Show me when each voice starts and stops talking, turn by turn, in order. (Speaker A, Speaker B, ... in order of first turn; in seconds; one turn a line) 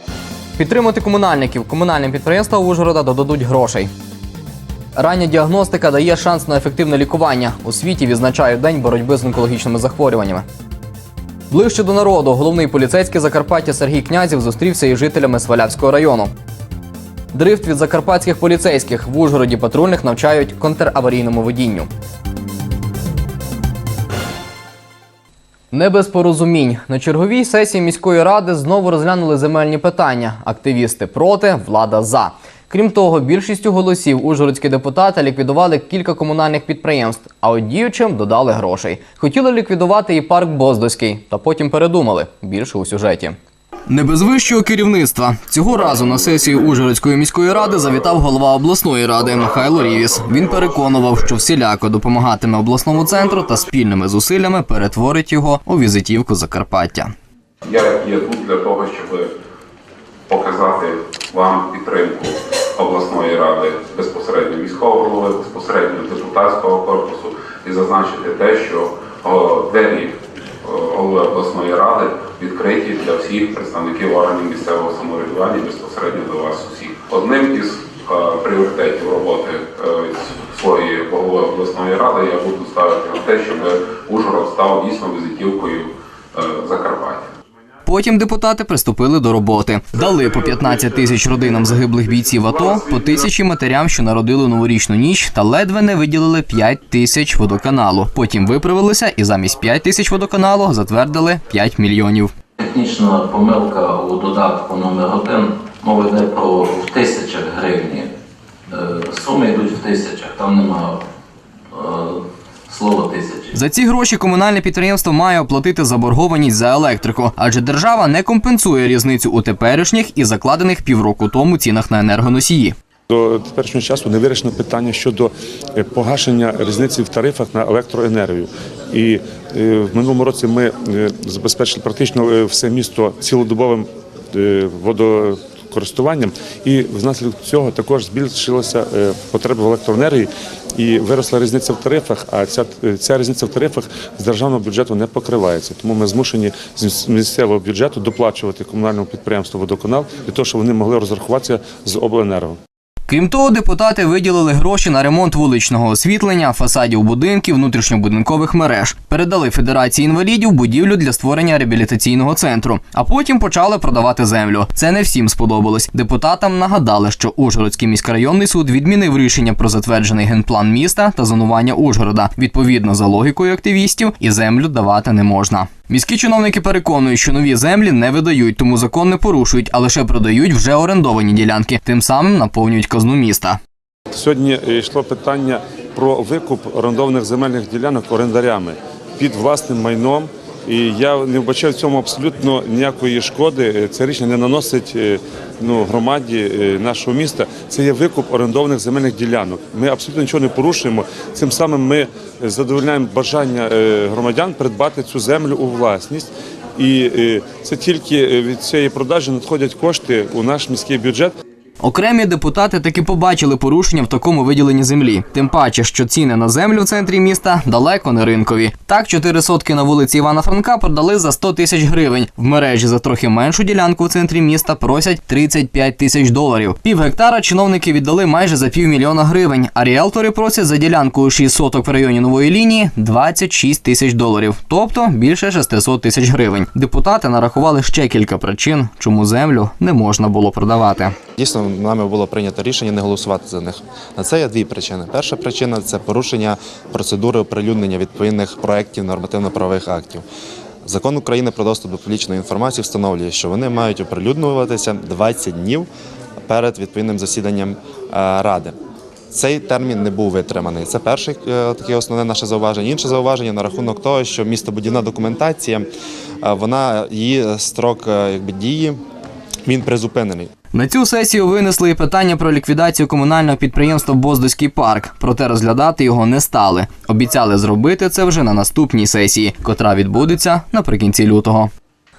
Speaker A: 0.6-3.9
Speaker A: 5.0-10.4
Speaker A: 11.5-16.3
Speaker A: 17.3-21.9
Speaker A: 25.7-43.4
Speaker A: 43.9-57.1
Speaker B: 57.7-59.3
Speaker B: 60.3-70.1
Speaker B: 70.6-87.2
Speaker A: 87.8-102.3
Speaker C: 102.6-108.1
Speaker C: 108.7-111.0
Speaker C: 111.7-113.5
Speaker A: 113.5-122.7
Speaker D: 123.1-152.6
Speaker A: 153.1-183.6
Speaker D: 184.1-211.3
Speaker A: 211.8-241.2
Speaker E: 241.4-250.2
Speaker E: 250.8-255.9
Speaker E: 256.5-258.8
Speaker E: 259.3-265.9
Speaker E: 266.4-269.0
Speaker E: 269.6-270.5
Speaker A: 270.7-281.7